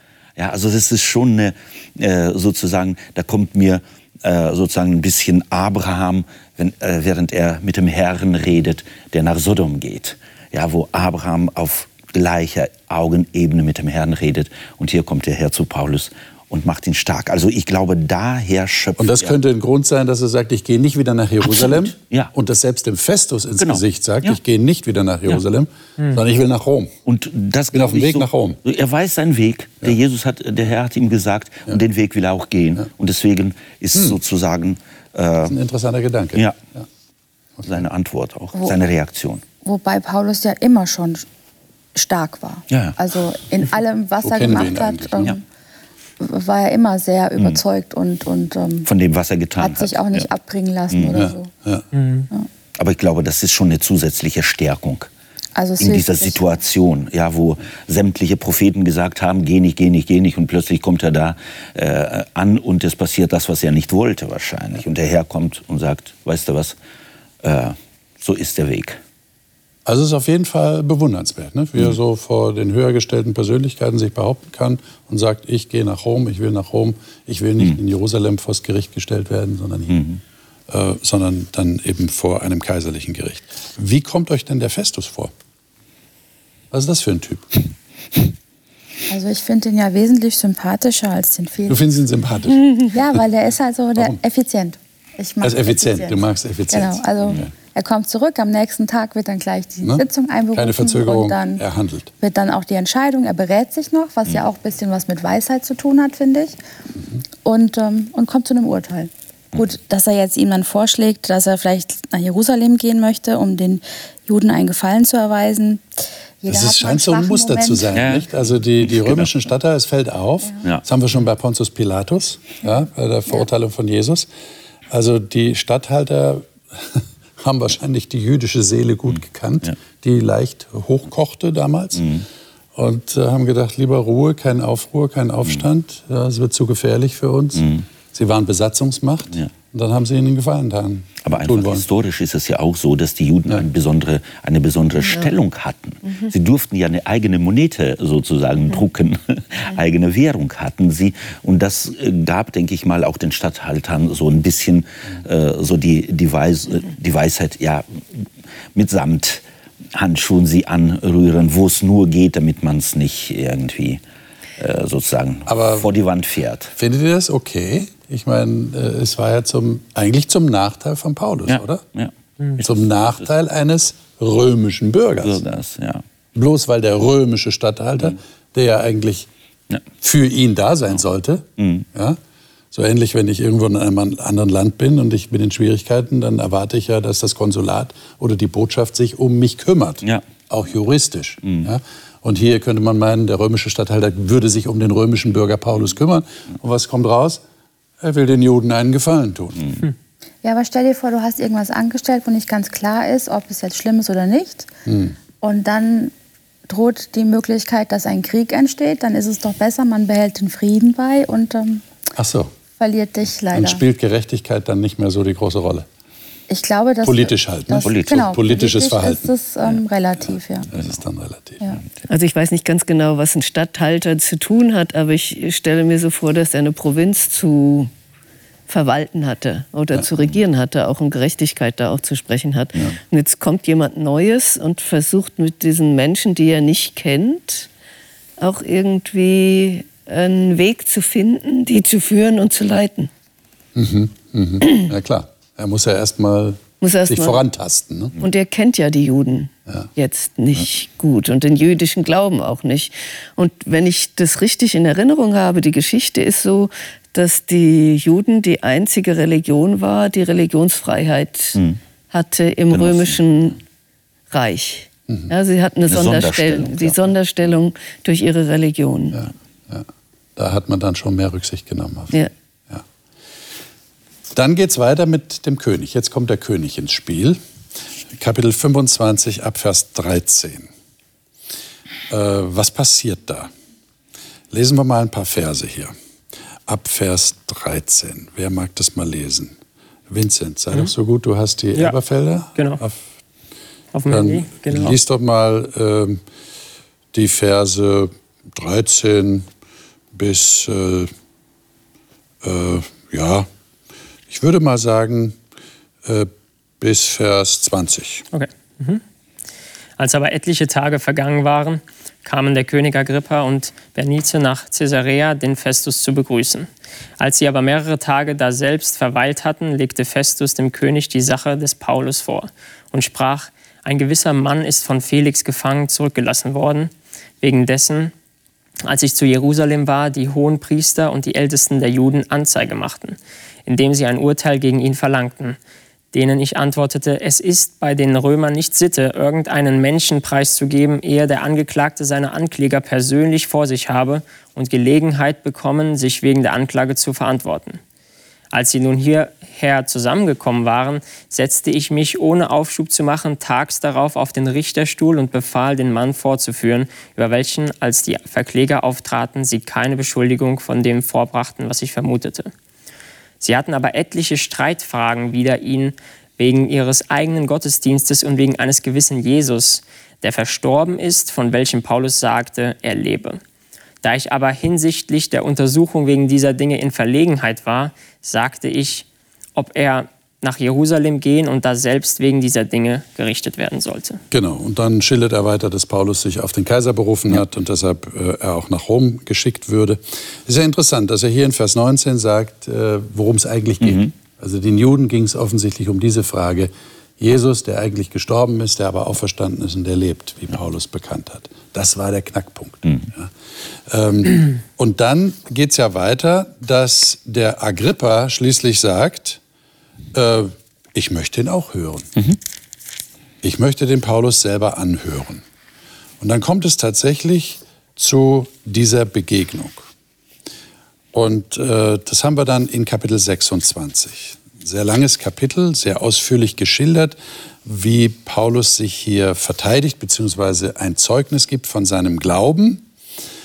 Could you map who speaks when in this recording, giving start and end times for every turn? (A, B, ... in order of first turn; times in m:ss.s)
0:00.4-0:19.3 A
0:19.0-0:26.9 B
0:21.4-0:22.3 A
0:23.6-0:24.4 A
0:27.0-0:35.6 A
0:27.7-0:28.6 B
0:35.4-0:36.8 B
0:37.6-0:39.4 A
0:39.6-0:41.2 C
0:41.9-0:45.4 C
0:42.7-0:43.0 A
0:44.2-0:45.3 B
0:46.2-0:48.9 C
0:48.8-0:50.2 A
0:49.6-0:51.5 C
0:50.9-0:51.2 A
0:51.1-0:51.8 B
0:51.9-0:52.3 D
0:52.8-0:55.1 A
0:55.6-0:56.4 C
0:55.8-1:06.8 A
1:07.4-1:09.0 A
1:09.8-1:20.0 B
1:19.9-1:20.2 A
1:20.7-1:25.3 B
1:26.7-1:27.6 B
1:29.1-1:31.8 C
1:31.7-1:33.2 B
1:32.9-1:41.6 C
1:35.4-1:37.4 B
1:40.6-1:42.1 B
1:42.2-1:46.6 C
1:47.4-1:55.8 C
1:56.4-1:58.2 C
1:56.5-2:04.3 B
1:57.9-1:58.3 A
1:58.8-1:59.3 A
2:04.9-2:12.1 B
2:12.0-2:12.2 A
2:12.7-2:21.8 B
2:17.6-2:17.8 A
2:21.2-2:44.0 A
2:44.6-2:46.7 A
2:45.5-2:45.9 B
2:46.8-2:51.8 B
2:51.5-2:53.1 A
2:52.6-2:55.4 B
2:55.2-2:56.0 A
2:56.3-2:59.3 B
3:00.0-3:02.2 B
3:01.6-3:01.9 A
3:02.7-3:17.4 B
3:18.0-3:19.6 B
3:20.4-3:24.7 C
3:24.8-3:25.2 B
3:25.4-3:26.1 C
3:26.7-3:31.8 C
3:32.1-3:32.5 B
3:32.8-3:33.8 C
3:33.5-3:35.9 B
3:36.5-3:40.7 C
3:37.0-3:39.3 B
3:37.8-3:38.3 A
3:40.7-3:41.6 B
3:42.1-3:47.9 E
3:48.7-3:57.7 E
3:58.4-4:03.1 E
4:03.7-4:08.2 B
4:06.8-4:07.4 E
4:08.2-4:21.6 E
4:22.1-4:23.6 E
4:22.7-4:23.2 A
4:24.3-4:29.2 E
4:25.9-4:27.1 A
4:29.1-4:32.1 B
4:34.3-4:37.4 B
4:38.1-4:40.7 B
4:42.1-4:43.5 B
4:44.5-4:45.9 B
4:46.7-4:49.5 B
4:50.1-4:53.0 B
4:52.6-4:52.8 D
4:53.9-4:55.0 D
4:54.1-4:56.2 B
4:57.1-4:59.5 B
5:00.1-5:01.1 B
5:02.4-5:03.5 B
5:04.3-5:05.4 B
5:06.0-5:06.3 B
5:06.8-5:08.2 B
5:08.3-5:09.0 D
5:10.0-5:28.1 D
5:28.8-5:35.6 D
5:36.1-5:47.8 D
5:48.5-6:02.5 D
6:03.4-6:13.4 D
6:14.0-6:24.2 D
6:24.3-6:43.3 B
6:33.8-6:34.1 A
6:43.9-6:49.4 B
6:50.1-6:52.1 B
6:53.4-6:55.4 B
6:56.2-6:59.9 B
7:01.1-7:12.8 B